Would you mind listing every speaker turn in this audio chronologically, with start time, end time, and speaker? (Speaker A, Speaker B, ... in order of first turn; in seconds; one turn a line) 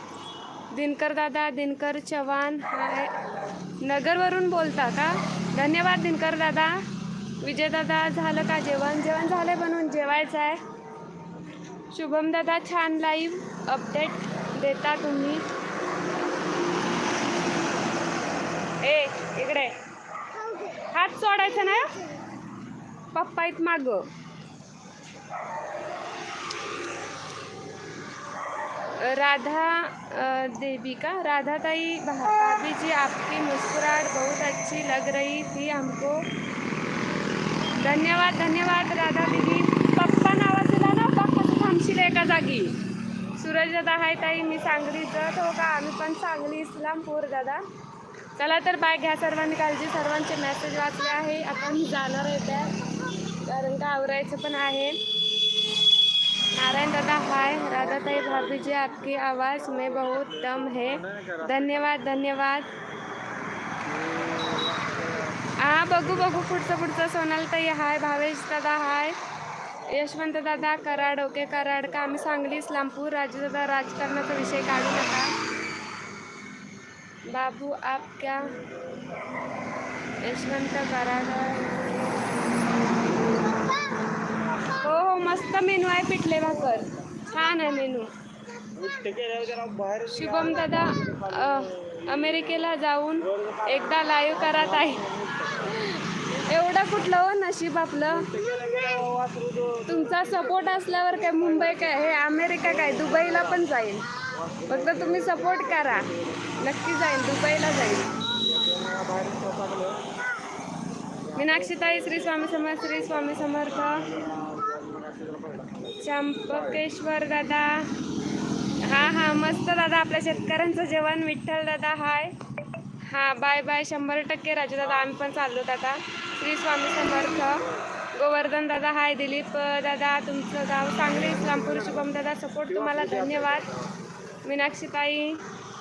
Speaker A: 0.7-3.1
Speaker A: 3.8-6.8
Speaker A: 7.4-10.6
Speaker A: 11.9-15.4
Speaker A: 18.8-19.8
Speaker A: 20.8-22.1
Speaker A: 23.1-24.1
Speaker A: 29.0-36.2
Speaker A: 37.8-42.8
Speaker A: 43.4-47.6
Speaker A: 48.4-55.0
Speaker A: 56.5-62.7
Speaker B: 57.5-62.0
Speaker B: 63.9-65.3
Speaker A: 65.6-69.2
Speaker B: 65.9-66.5
Speaker A: 69.9-75.3
Speaker A: 77.3-78.6
Speaker A: 80.2-82.0
Speaker A: 84.8-88.1
Speaker B: 88.7-92.5
Speaker A: 90.1-95.0
Speaker B: 93.2-95.9
Speaker A: 95.6-98.3
Speaker B: 98.1-102.1
Speaker A: 99.9-104.1
Speaker B: 102.6-103.6
Speaker B: 104.3-106.4
Speaker A: 104.7-108.1
Speaker B: 108.5-110.0
Speaker B: 111.3-115.9
Speaker A: 111.3-114.1
Speaker A: 116.0-117.9
Speaker B: 116.5-116.8
Speaker A: 118.8-122.3
Speaker A: 123.1-133.7
Speaker B: 131.1-132.1
Speaker B: 132.7-133.9
Speaker A: 134.4-135.4